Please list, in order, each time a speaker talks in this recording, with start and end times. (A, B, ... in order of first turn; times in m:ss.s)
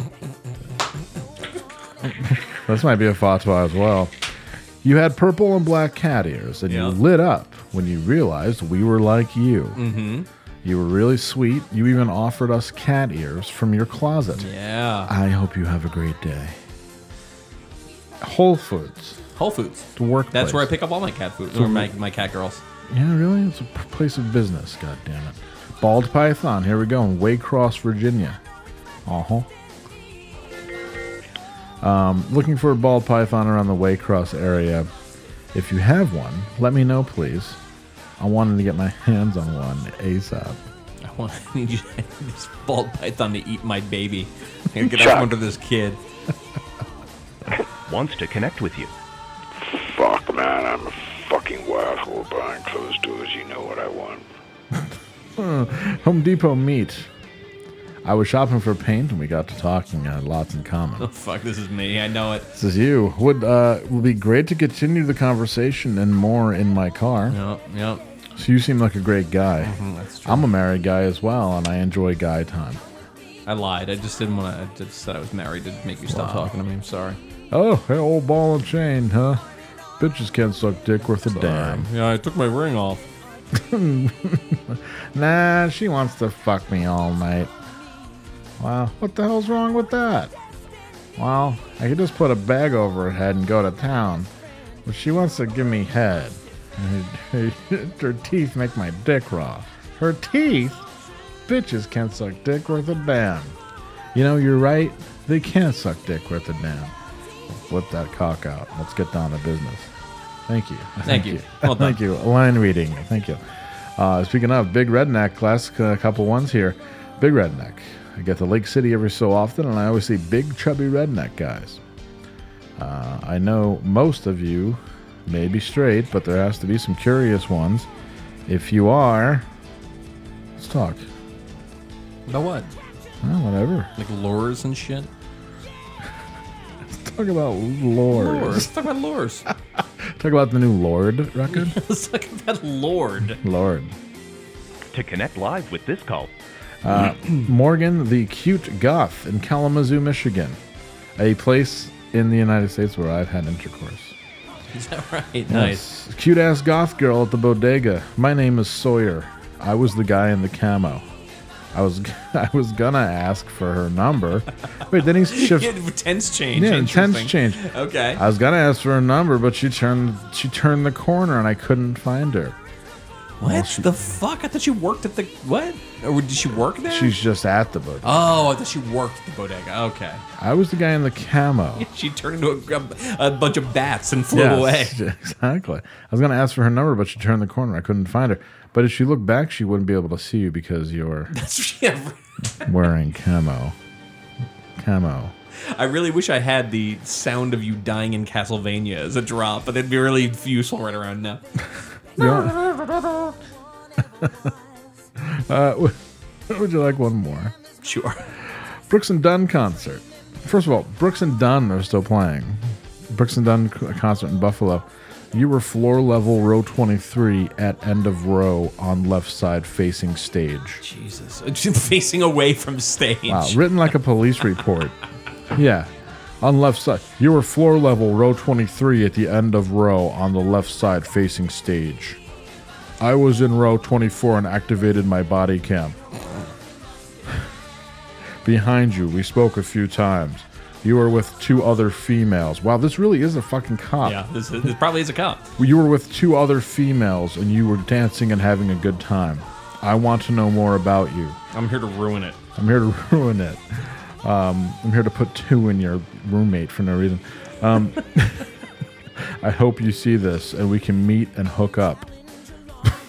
0:02.1-0:04.1 A
0:04.8-0:09.8 A
0:06.7-0:07.0 B
0:09.8-0:10.3 B
0:10.6-0:14.5 A
0:14.4-0:15.1 B
0:15.1-0:16.6 A
0:18.2-0:19.2 A
0:19.4-0:22.6 B
0:20.0-0:20.7 A
0:21.5-0:21.9 A
0:22.9-0:28.4 A
0:29.0-0:29.5 A
0:31.8-0:34.9 A
0:35.5-0:37.6 A
0:38.2-0:40.6 A
0:41.0-0:46.0 B
0:47.9-0:48.9 C
0:49.6-0:54.3 D
0:54.8-0:57.1 A
0:58.0-1:01.1 A
1:01.0-1:02.5 B
1:02.6-1:07.4 A
1:07.3-1:08.0 B
1:08.3-1:09.7 A
1:09.6-1:10.4 B
1:10.2-1:12.8 A
1:13.4-1:17.2 B
1:16.1-1:16.5 A
1:17.5-1:19.4 A
1:20.0-1:21.9 A
1:21.3-1:23.0 B
1:23.5-1:27.5 A
1:28.6-1:30.3 A
1:31.2-1:34.3 A
1:34.8-1:40.8 A
1:41.5-1:43.6 A
1:44.1-1:46.9 A
1:47.5-1:49.9 A
1:50.5-1:53.4 A
1:51.0-1:52.0 B
1:54.0-2:01.8 A
2:02.8-2:07.9 A
2:08.4-2:09.5 A
2:10.6-2:11.0 A
2:12.3-2:12.7 B
2:13.2-2:13.9 A
2:14.0-2:15.1 B
2:16.8-2:18.7 A
2:18.1-2:19.5 B
2:19.8-2:21.8 A
2:21.5-2:23.4 B
2:23.2-2:24.0 A
2:24.9-2:26.3 C
2:26.8-2:30.6 A
2:26.9-2:27.3 B
2:31.2-2:34.1 A
2:34.7-2:35.8 B
2:35.5-2:41.0 A
2:41.7-2:45.7 A
2:45.3-2:48.2 B
2:46.5-2:47.6 A
2:48.1-2:52.6 A
2:53.4-2:57.1 B
2:53.4-2:54.0 A
2:56.8-2:58.4 A
2:58.0-3:00.2 B
3:00.4-3:01.8 A
3:01.7-3:05.0 B
3:04.3-3:11.3 A
3:11.3-3:12.7 B
3:12.6-3:13.8 A
3:14.8-3:15.3 A
3:15.7-3:21.4 B
3:22.2-3:22.7 A
3:24.2-3:24.5 A
3:25.2-3:26.0 A
3:26.5-3:27.5 A
3:27.8-3:28.2 B
3:28.9-3:40.8 A
3:40.8-3:43.6 B
3:43.3-3:45.0 A
3:45.5-3:52.2 A
3:53.0-3:56.0 A
3:58.4-4:04.2 A
4:04.0-4:05.5 B
4:05.6-4:11.4 A
4:11.5-4:12.4 B
4:12.6-4:18.5 A
4:19.4-4:22.1 A